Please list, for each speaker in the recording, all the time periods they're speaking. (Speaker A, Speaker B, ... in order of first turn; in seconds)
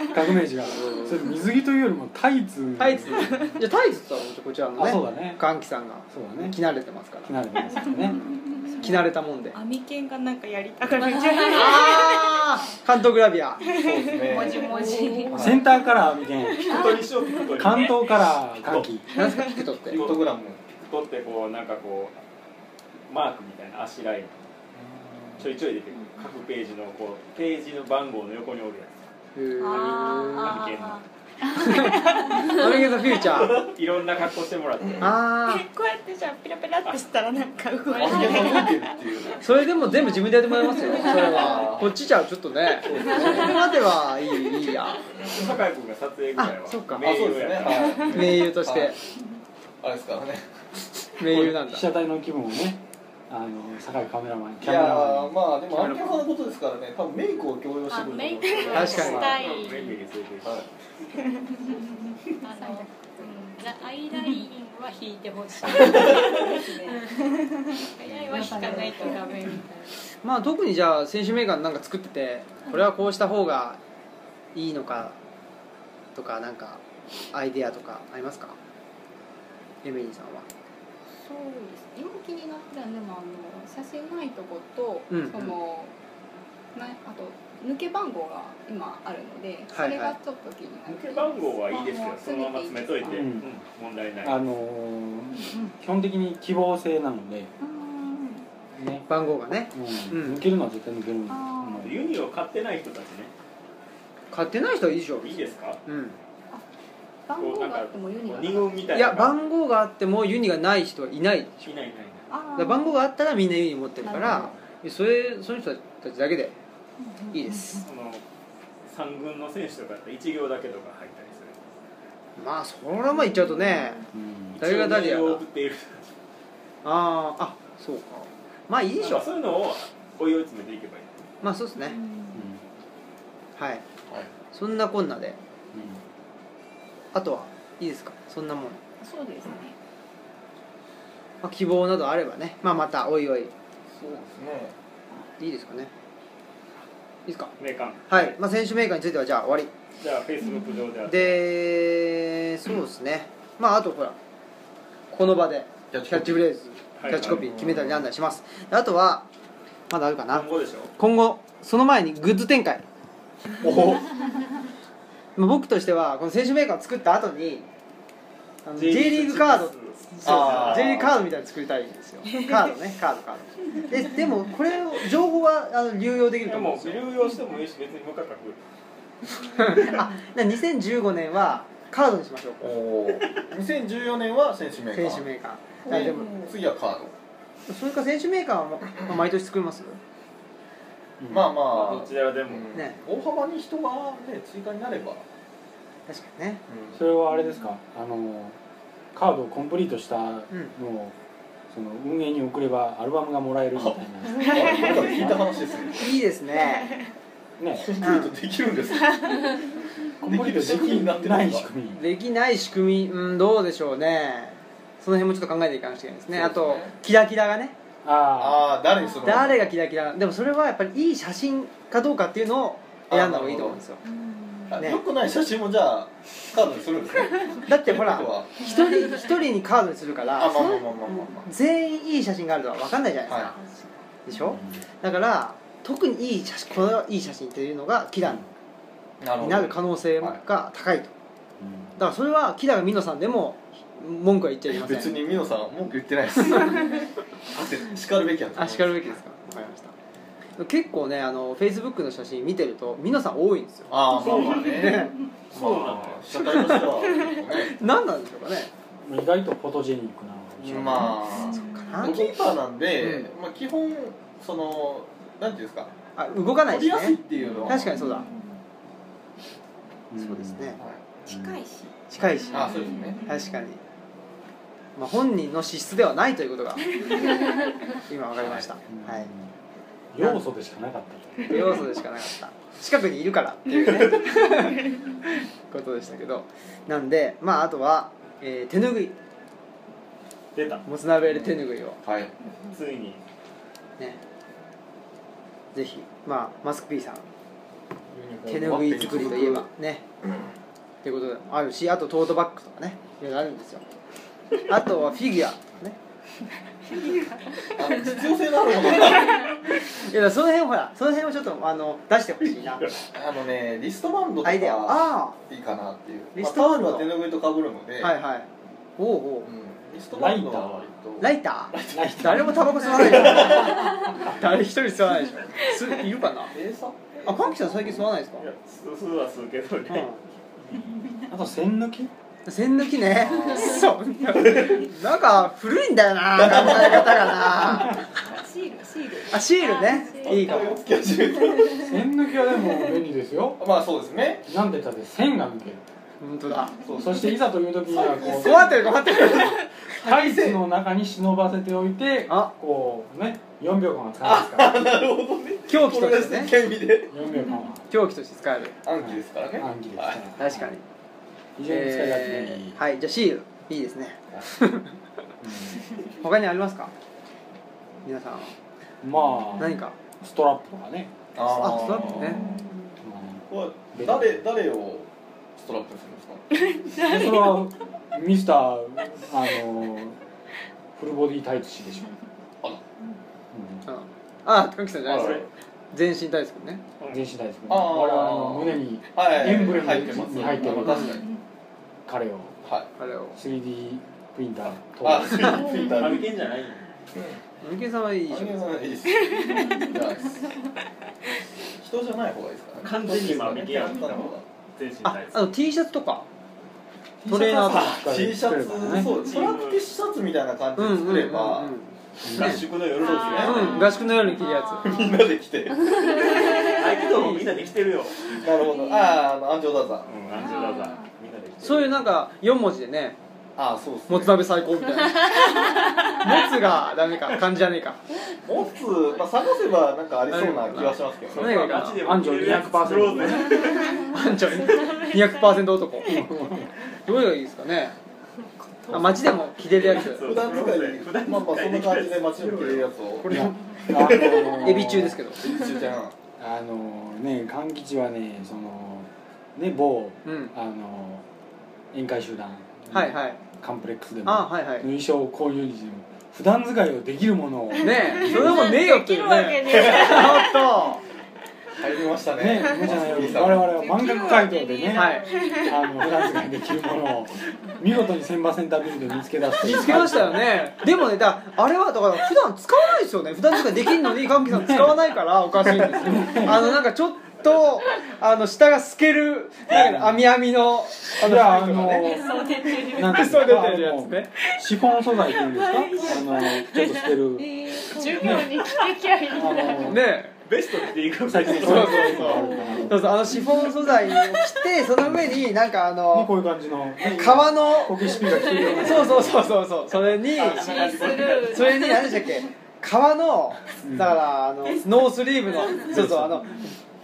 Speaker A: 0.1-3.6, 4.8-5.4, 6.1-6.6, 7.2-8.2, 15.3-16.8, 17.6-19.1, 51.2-56.1, 93.1-93.5, 94.2-97.5, 98.8-99.1, 99.7-102.0, 124.1-124.6, 132.3-132.6, 135.7-136.0, 191.2-191.5, 196.9-198.6, 199.1-201.1, 201.7-205.6, 207.6-207.9, 210.2-212.0, 218.0-218.8, 234.4-234.8, 241.6-241.9, 259.1-261.2, 270.1-271.6, 278.9-279.5, 280.1-281.8, 320.1-320.8, 321.9-322.9, 331.3-332.1, 341.8-343.6, 344.5-345.8, 346.9-354.8, 357.1-357.8, 359.0-360.7, 361.6-362.8, 365.4-365.8, 369.0-371.1, 373.0-374.4, 377.0-380.2, 381.0-382.1, 383.5-383.8, 387.1-391.2, 392.1-392.5, 393.4-395.6, 407.2-409.1, 412.2-412.7, 432.0-433.7, 436.0-436.7, 438.9-439.3, 443.3-445.2, 446.4-451.2, 451.9-458.8, 462.4-470.5, 474.3-475.1, 476.0-476.7, 479.7-480.3, 481.1-487.6, 488.2-488.6, 489.3-490.0, 491.2-493.4, 495.1-495.4, 496.1-499.5, 503.8-504.2, 505.9-506.6
Speaker B: 0.8-1.1, 2.8-7.4, 7.9-9.6, 11.5-13.6, 19.1-20.0, 29.4-30.7, 31.6-33.6, 35.0-35.7, 39.4-45.0, 46.4-47.1, 48.1-49.0, 51.2-51.9, 58.7-59.4, 70.2-73.8, 74.5-75.2, 76.2-78.6, 79.8-80.5, 85.1-85.6, 89.7-90.2, 99.1-100.5, 104.3-106.2, 108.9-111.7, 112.5-116.5, 117.3-117.9, 122.4-124.0, 124.6-125.4, 126.8-129.3, 131.4-132.0, 133.6-133.8, 134.5-135.4, 137.1-138.8, 141.4-143.5, 145.4-145.9, 147.3-147.5, 148.1-149.7, 151.1-154.2, 155.1-159.3, 159.9-162.8, 165.4-167.7, 168.7-177.1, 179.5-182.7, 184.9-186.3, 187.7-190.0, 196.1-196.6, 206.0-206.9, 208.0-208.3, 211.9-217.8, 219.2-224.0, 224.8-225.0, 227.7-233.6, 234.2-238.4, 239.4-241.1, 242.0-245.2, 248.6-249.9, 250.6-255.2, 256.3-256.9, 257.6-258.7, 261.2-262.3, 263.0-263.3, 266.2-268.3, 270.2-270.8, 272.1-273.8, 275.0-277.4, 277.9-279.3, 281.4-284.8, 285.7-289.2, 290.9-292.0, 295.8-297.3, 298.5-300.0, 301.0-303.8, 304.7-306.0, 309.9-312.9, 314.4-315.4, 316.4-317.2, 318.0-319.5, 321.2-326.6, 327.2-328.5, 329.9-330.2, 332.5-338.1, 339.3-340.8, 346.2-346.7, 348.2-349.6, 355.7-356.6, 357.9-358.8, 360.4-360.8, 361.7-365.0, 366.2-366.9, 368.1-368.5, 369.6-369.9, 371.4-372.5, 383.9-386.8, 393.0-393.4, 397.6-398.7, 405.0-406.3, 407.3-408.0, 410.8-412.6, 413.4-415.1, 416.9-417.7, 421.6-423.2, 424.1-428.0, 430.3-432.1, 433.5-438.0, 438.9-440.2, 443.2-445.4, 450.2-450.5, 452.9-453.4, 454.2-454.9, 457.8-461.0, 464.9-465.3, 469.6-482.2, 483.0-484.3, 489.9-490.3, 491.4-496.3, 497.0-498.1, 498.8-500.8, 501.4-506.7
Speaker C: 8.2-9.0, 11.0-12.0, 14.3-15.6, 29.6-30.9, 37.9-38.9, 57.9-60.0, 62.4-67.3, 67.9-70.0, 219.0-219.3, 224.1-224.7, 228.7-229.2, 233.6-234.0, 261.5-262.0, 267.9-268.5, 272.5-273.5, 339.6-340.8, 395.5-396.0, 413.0-415.3, 415.9-417.0, 418.6-419.2, 420.4-421.1, 433.8-434.1, 458.5-460.9, 463.8-465.8, 482.1-483.2, 486.1-486.8, 487.4-490.0, 492.6-492.9, 498.2-499.1, 500.4-502.5
Speaker D: 8.6-9.0, 9.5-12.3, 13.6-15.4, 16.7-17.1, 19.1-19.7, 29.6-30.3, 31.7-32.7, 35.4-38.8, 58.5-58.8, 66.0-66.4, 68.4-69.2, 204.5-205.3, 209.0-209.7, 271.3-271.9, 376.7-377.7, 399.3-400.0, 434.0-435.3, 458.4-460.7, 462.8-463.1, 463.7-465.9, 482.3-483.1, 485.1-487.1, 487.8-489.8
Speaker E: 13.8-14.7, 15.3-15.6, 19.9-20.6, 24.7-25.5, 37.9-39.5, 40.9-42.0, 42.7-43.7, 45.2-45.5, 47.0-48.9, 49.8-50.5, 54.6-59.4, 143.9-144.7, 155.9-156.4, 157.1-158.1, 163.6-164.1, 170.2-171.1, 182.6-185.3, 185.8-187.1, 191.3-195.2, 196.7-197.0, 203.7-206.2, 207.8-209.4, 210.2-211.7, 216.3-216.9, 218.3-219.7, 223.1-223.8, 224.7-228.5, 230.3-231.5, 233.3-233.6, 239.2-240.4, 244.7-246.9, 247.5-249.0, 253.9-257.8, 260.6-265.9, 266.7-268.0, 270.8-271.1, 272.5-273.2, 292.0-292.3, 298.1-299.7, 307.8-309.5, 313.1-318.1, 319.4-322.2, 322.9-324.0, 326.5-327.9, 333.2-333.9, 336.4-337.7, 340.2-342.0, 343.6-344.5, 346.8-350.6, 354.2-357.2, 358.8-360.2, 371.4-372.6, 373.5-376.4, 387.7-391.2, 395.0-396.3, 397.1-397.4, 398.3-400.4, 401.8-404.4, 407.3-413.7, 414.8-416.3, 418.3-420.1, 423.6-424.5, 428.3-431.8, 439.9-446.2, 459.7-460.0, 461.8-463.8
Speaker F: 14.4-15.7, 62.5-63.1, 66.1-67.0, 68.3-69.2, 81.2-86.0, 86.7-93.3, 95.4-95.7, 97.6-98.5, 101.3-102.0, 107.3-109.2, 112.3-113.0, 114.0-114.5, 117.0-117.9, 123.2-124.0, 131.8-132.4, 139.0-139.8, 150.4-150.8, 338.1-339.5
Speaker G: 16.6-18.2, 19.9-22.1, 23.1-24.4, 25.4-28.9, 30.4-31.0, 33.5-35.2, 45.2-48.5, 58.9-60.6, 90.9-94.4, 101.8-103.3, 105.2-105.8, 107.4-109.4, 111.7-112.3, 117.8-118.2, 118.9-121.6, 124.6-126.1, 129.0-131.1, 147.6-148.4, 150.0-151.4, 157.0-157.4, 160.3-160.9, 168.8-171.1, 176.4-178.6, 191.7-192.7, 254.2-254.7, 255.5-256.2, 290.6-290.9, 292.7-293.2, 328.4-330.1, 385.1-385.5, 395.4-396.8, 402.8-405.5, 409.0-409.8, 412.4-414.0, 416.3-418.5, 420.1-422.1, 431.3-434.1, 438.9-442.9, 490.5-492.6, 500.2-501.9